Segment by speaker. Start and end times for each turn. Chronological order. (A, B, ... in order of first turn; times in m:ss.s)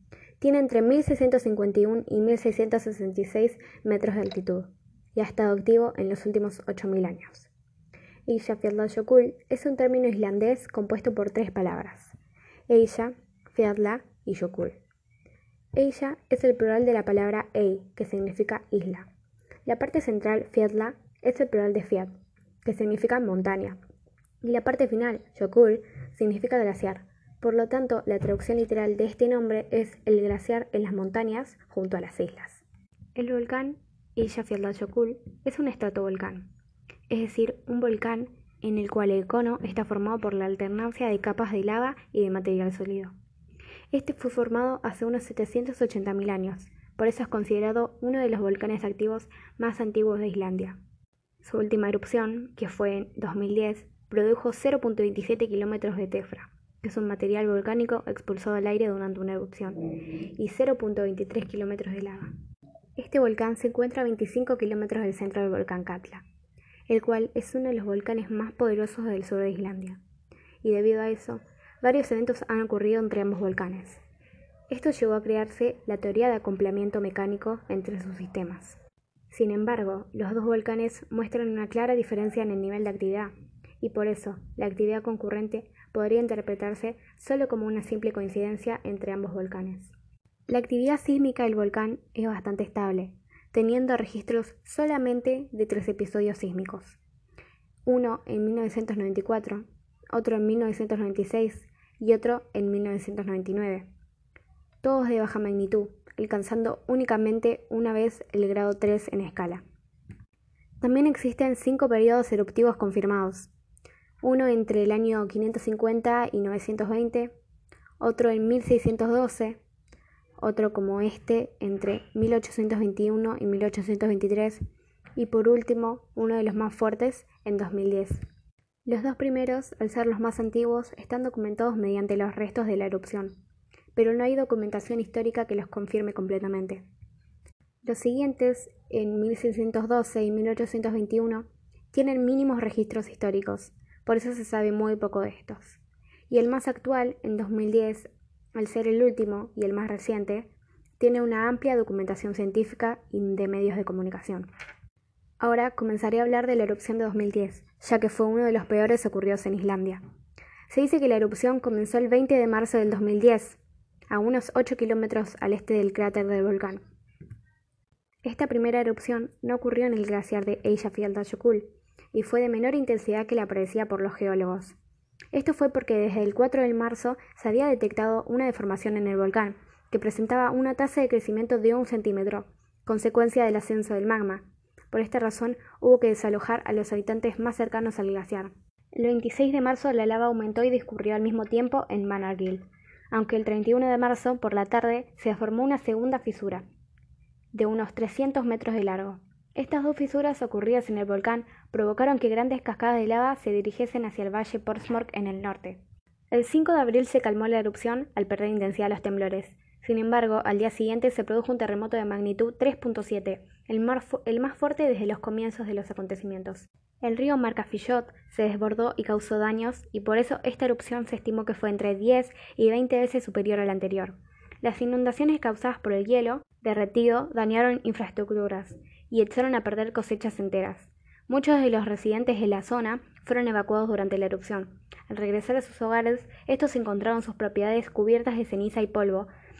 0:00.4-0:07.5 A
0:08.3-0:12.2 A
0:12.7-0:14.8 A
0:15.8-0:19.1 A
0:19.6-0:23.8 A
0:24.4-0:32.6 A
0:33.2-0:36.5 A
0:37.1-0:43.1 A
0:43.9-0:50.8 A
0:51.4-0:59.8 A
1:00.4-1:02.3 A
1:03.0-1:06.2 A
1:06.9-1:10.0 A
1:10.6-1:14.0 A
1:14.7-1:18.8 A
1:19.3-1:29.9 A
1:30.5-1:37.0 A
1:37.8-1:43.9 A
1:44.8-1:49.6 A
1:50.8-1:53.5 A
1:54.2-1:57.3 A
1:58.0-1:59.6 A
2:00.4-2:04.6 A
2:05.2-2:08.2 A
2:08.8-2:13.3 A
2:13.9-2:16.8 A
2:17.8-2:34.5 A
2:35.4-2:40.0 A
2:40.7-2:46.8 A
2:48.2-2:54.8 A
2:55.3-3:16.6 A
3:17.5-3:59.3 A